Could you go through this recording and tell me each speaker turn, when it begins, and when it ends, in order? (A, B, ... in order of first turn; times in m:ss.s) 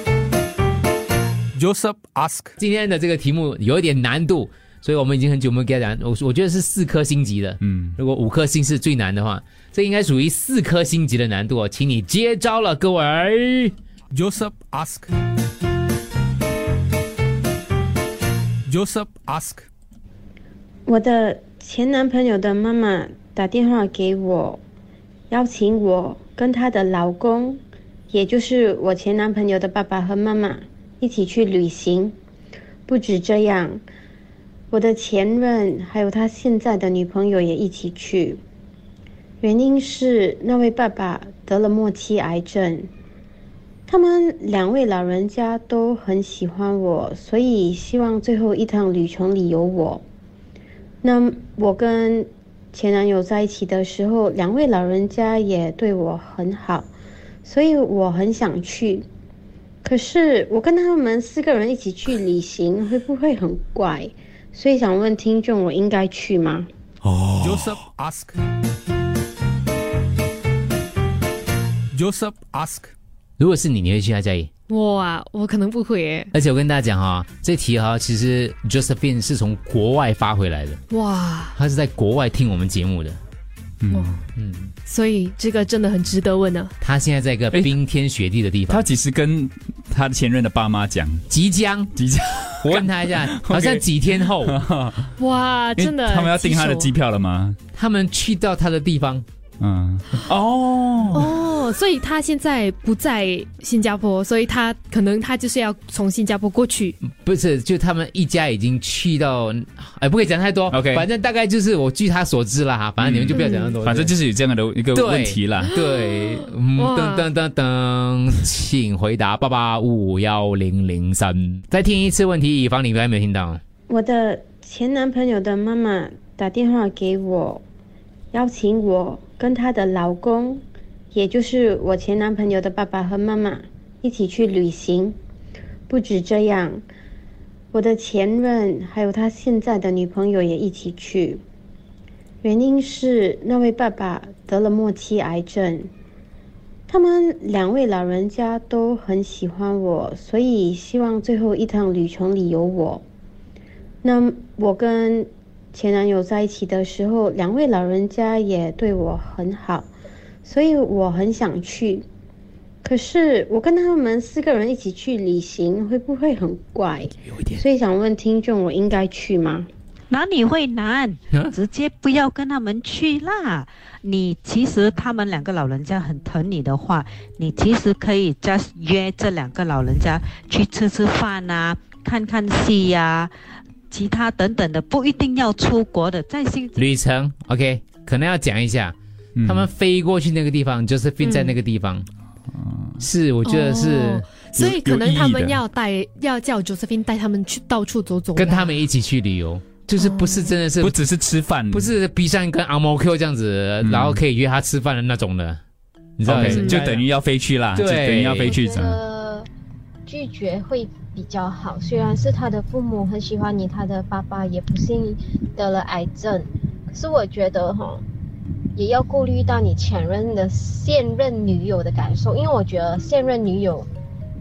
0:01.5-0:02.6 A
0:02.6-0:13.7 B
0:07.6-0:08.0 C
0:14.1-0:15.1 A
0:18.7-0:19.7 A
0:20.9-0:24.6 D
0:25.3-0:32.2 D
0:32.9-0:33.8 D
0:34.7-0:38.4 D
0:39.4-0:42.9 D
0:43.9-0:50.0 D
0:51.0-0:56.9 D
0:57.4-0:59.1 D
0:59.8-1:06.7 D
1:07.4-1:08.4 A
1:11.9-1:12.9 A
1:13.4-1:14.5 B
1:14.7-1:16.3 E
1:16.3-1:20.8 B
1:20.9-1:21.6 E
1:21.6-1:23.2 B
1:23.8-1:24.2 C
1:23.9-1:24.2 E
1:24.4-1:24.7 B
1:24.8-1:26.7 E
1:26.8-1:28.8 B
1:28.7-1:31.2 C
1:31.3-1:31.9 B
1:32.0-1:35.1 C
1:32.6-1:34.6 B
1:35.2-1:36.9 E
1:35.8-1:37.6 C
1:37.8-1:39.2 B
1:39.6-1:41.3 C
1:41.1-1:47.0 E
1:47.0-1:54.1 B
1:50.7-1:51.1 C
1:53.0-1:55.7 C
1:53.3-1:53.8 E
1:54.9-2:03.6 B
1:55.7-1:57.3 E
2:03.9-2:07.6 D
2:08.3-2:15.2 D
2:15.9-2:16.8 D
2:17.7-2:21.4 D
2:22.4-2:25.9 D
2:26.9-2:33.0 D
2:34.0-2:39.9 D
2:40.4-2:42.1 D
2:42.8-2:49.7 D
2:47.2-2:47.6 B
2:50.1-3:03.3 F
3:03.9-3:06.9 F
3:06.8-3:12.1 B
3:09.4-3:09.7 C
3:11.2-3:11.5 E
3:12.6-3:13.0 C
3:13.0-3:14.2 B
3:13.4-3:18.8 E
3:14.6-3:15.6 C
3:18.4-3:21.0 B
3:20.0-3:20.5 E
3:20.8-3:21.9 C
3:21.7-3:25.6 B
3:23.8-3:24.2 C
3:26.2-3:27.0 B
3:26.2-3:29.0 C
3:26.5-3:26.8 E
3:27.7-3:28.5 B
3:28.5-3:29.5 G
3:30.1-3:38.0 G
3:38.8-3:43.9 G